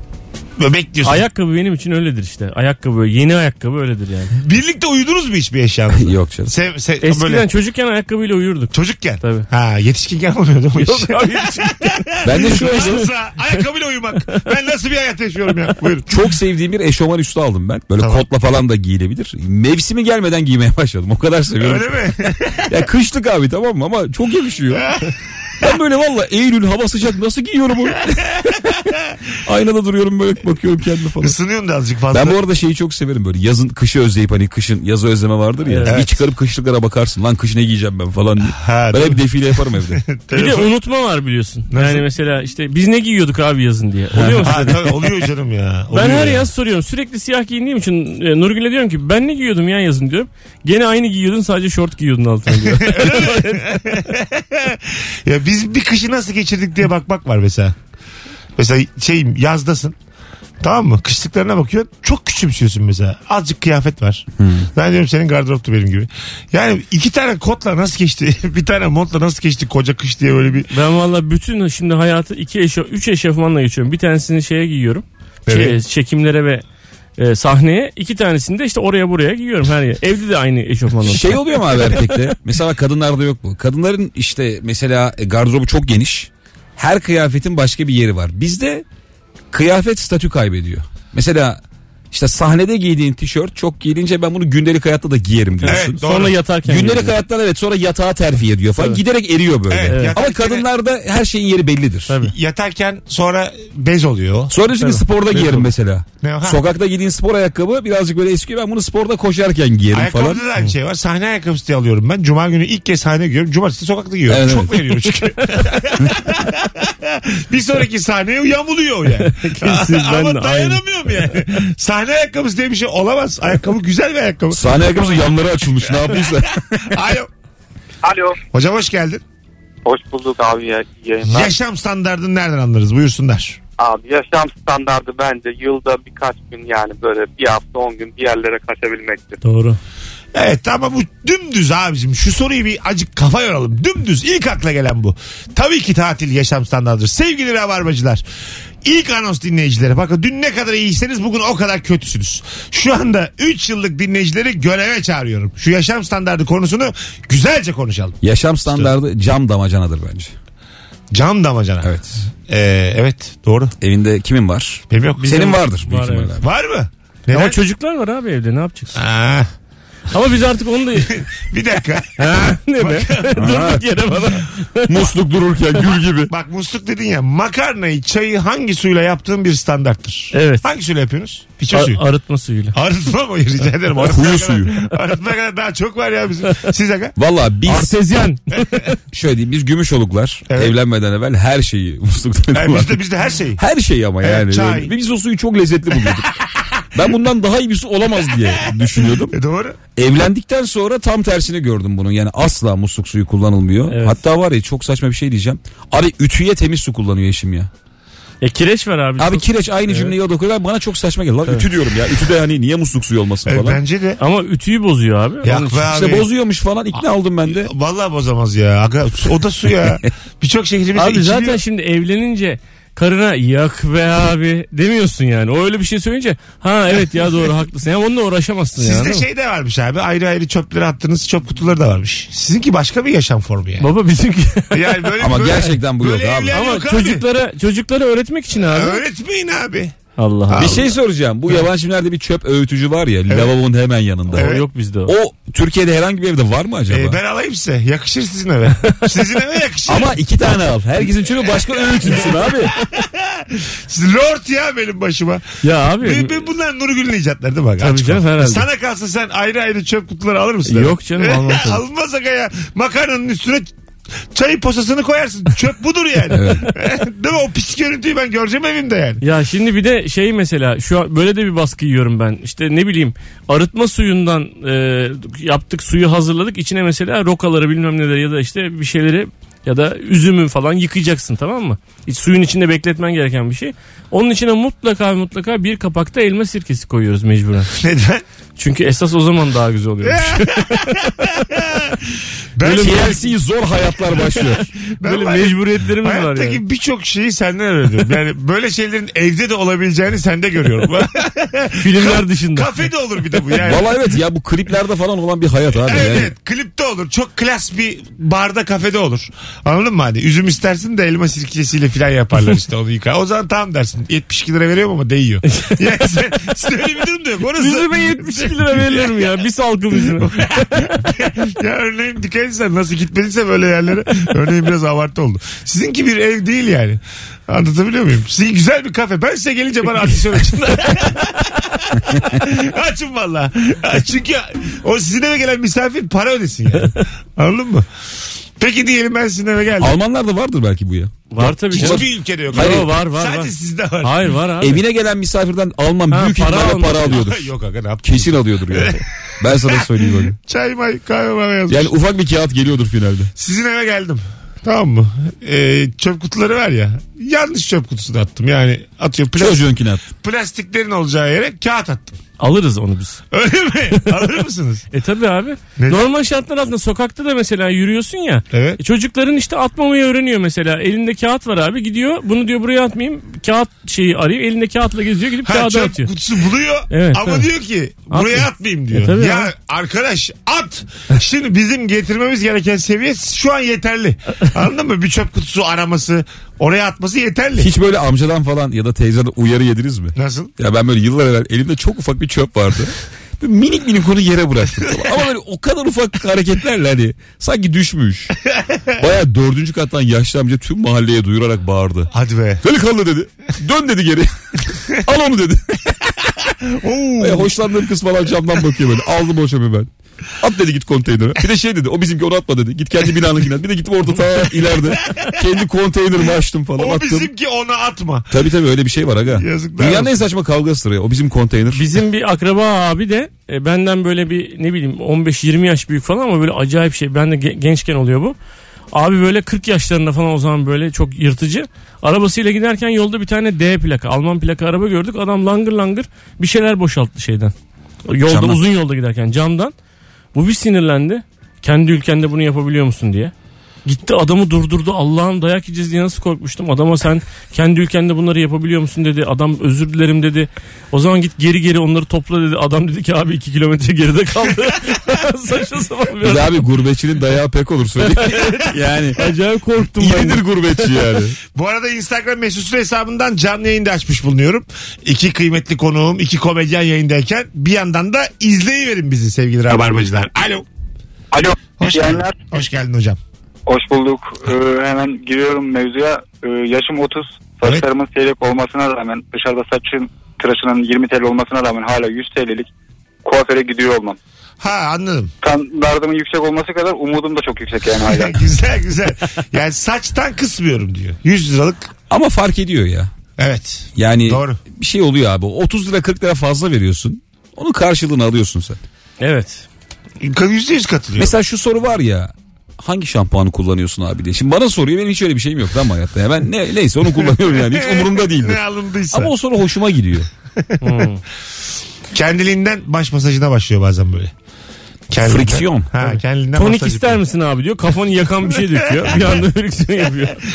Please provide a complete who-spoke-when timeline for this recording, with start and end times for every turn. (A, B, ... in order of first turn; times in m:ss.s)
0:00.6-0:01.2 A
0:01.0-0:04.3 B
0:04.4-0:07.5 A
0:05.9-0:06.5 C
0:07.0-0:09.5 B
0:08.7-0:16.1 A
0:10.8-0:13.0 B
0:12.2-0:13.1 C
0:16.1-0:22.0 C
0:18.0-0:18.2 A
0:21.6-0:22.8 A
0:22.7-0:24.9 C
0:24.7-0:25.1 A
0:25.6-0:28.9 C
0:29.4-0:31.4 C
0:31.2-0:32.4 A
0:32.1-0:40.0 C
0:35.6-0:36.0 B
0:35.9-0:36.2 A
0:38.4-0:40.7 A
0:40.3-0:44.9 B
0:41.7-0:42.0 A
0:44.1-0:44.7 C
0:44.4-0:46.5 A
0:45.9-0:53.6 B
0:52.7-0:57.8 A
0:58.6-0:59.9 A
1:00.6-1:10.7 A
1:04.4-1:04.7 C
1:10.7-1:16.6 B
1:15.5-1:15.8 A
1:17.2-1:22.3 B
1:21.0-1:28.8 C
1:29.5-1:36.0 C
1:35.6-1:37.2 B
1:35.7-1:36.4 A
1:36.6-1:42.1 C
1:39.7-1:40.6 A
1:39.9-1:40.2 B
1:42.1-1:42.3 B
1:42.2-1:44.5 A
1:44.5-1:50.4 C
1:44.8-1:45.7 B
1:46.2-1:46.6 A
1:49.9-2:04.7 A
1:54.2-1:55.0 C
1:59.2-2:00.8 B
2:04.5-2:06.8 C
2:06.0-2:07.3 A
2:08.0-2:08.4 D
2:08.5-2:09.2 A
2:09.8-2:11.5 D
2:11.3-2:13.6 A
2:13.8-2:19.4 D
2:19.4-2:19.8 B
2:20.3-2:28.2 A
2:28.8-2:38.2 A
2:38.2-2:40.3 C
2:41.1-2:41.9 A
2:41.8-2:42.2 C
2:42.4-2:43.7 A
2:43.8-2:46.4 C
2:44.9-2:45.5 A
2:45.2-2:46.4 B
2:46.4-2:47.6 A
2:47.3-2:49.0 B
2:49.0-2:49.5 A
2:50.1-2:51.2 B
2:51.1-2:53.4 A
2:52.2-2:55.0 B
2:53.3-2:53.8 C
2:54.9-2:56.3 C
2:56.3-3:02.0 A
3:00.3-3:00.6 B
3:01.7-3:02.7 B
3:02.7-3:07.1 A
3:04.0-3:04.7 C
3:07.2-3:08.0 C
3:07.7-3:09.0 B
3:09.1-3:13.0 C
3:10.5-3:10.7 A
3:12.5-3:13.6 A
3:13.6-3:16.4 C
3:14.2-3:14.9 A
3:16.9-3:19.3 C
3:19.3-3:19.8 A
3:20.0-3:27.7 C
3:23.9-3:24.2 B
3:28.4-3:30.1 B
3:29.2-3:33.8 C
3:33.4-3:34.2 A
3:34.2-3:35.8 B
3:35.4-3:36.3 A
3:35.9-3:37.7 C
3:37.4-3:41.6 A
3:41.0-3:49.2 B
3:48.8-3:53.9 A
3:53.8-3:55.1 B
3:54.7-3:57.2 A
3:55.2-3:56.6 C
3:56.5-3:59.0 B
3:58.6-3:59.9 A
4:00.2-4:00.8 B
4:00.5-4:00.9 A
4:00.6-4:04.5 C
4:04.3-4:05.1 B
4:04.3-4:04.6 A
4:05.0-4:07.2 C
4:06.9-4:10.1 A
4:09.9-4:12.7 C
4:11.7-4:23.7 A
4:15.6-4:16.4 B
4:17.8-4:18.6 B
4:20.6-4:21.8 B
4:24.3-4:29.2 A
4:26.3-4:26.7 C
4:29.2-4:47.7 B
4:47.8-4:48.2 A
4:48.6-4:51.5 B
4:50.0-4:52.0 A
4:52.6-4:53.2 A
4:52.6-4:53.2 B
4:52.7-4:54.6 C
4:54.9-5:03.9 A
4:55.0-4:56.6 B
5:01.8-5:02.7 B
5:03.6-5:06.3 C
5:05.8-5:19.1 A
5:17.6-5:21.0 B
5:20.1-5:37.9 A
5:38.6-5:39.9 A
5:39.8-5:42.9 C
5:41.3-5:44.8 B
5:41.7-5:44.3 A
5:44.6-5:47.5 C
5:46.1-5:47.2 B
5:47.0-5:49.0 A
5:48.0-5:50.4 C
5:49.6-5:51.9 A
5:51.7-5:53.3 C
5:53.4-6:02.2 A
5:59.4-6:00.0 C
6:02.4-6:03.2 B
6:03.3-6:04.8 A
6:04.9-6:16.1 B
6:05.8-6:06.1 A
6:08.5-6:08.8 A
6:15.4-6:27.7 A
6:16.9-6:17.4 B
6:18.1-6:19.5 B
6:27.6-6:38.3 C
6:30.2-6:30.5 A
6:39.0-6:46.0 C
6:42.1-6:42.6 A
6:46.6-6:47.5 A
6:47.2-6:57.3 C
6:56.8-6:58.3 A
6:58.3-7:01.9 C
6:59.3-7:00.2 A
7:01.7-7:08.4 B
7:08.9-7:17.5 B
7:18.0-7:19.7 B
7:18.2-7:18.6 C
7:20.3-7:23.3 B
7:23.8-7:36.6 B
7:36.2-7:39.2 C
7:38.0-7:41.0 B
7:39.8-7:41.4 C
7:41.5-7:50.6 A
7:51.3-7:52.4 E
7:51.8-7:53.2 A
7:53.7-8:02.7 E
8:03.2-8:04.2 E
8:04.6-8:05.3 A
8:05.4-8:08.4 E
8:08.0-8:11.9 A
8:12.1-8:13.1 C
8:13.4-8:14.6 A
8:14.0-8:18.8 C
8:19.2-8:19.6 B
8:20.2-8:21.3 A
8:21.2-8:30.3 C
8:27.2-8:29.3 A
8:30.6-8:31.0 A
8:30.8-8:31.2 B
8:32.1-8:34.3 A
8:35.1-8:37.2 A
8:35.2-8:35.9 C
8:36.0-8:40.4 B
8:39.0-8:39.3 A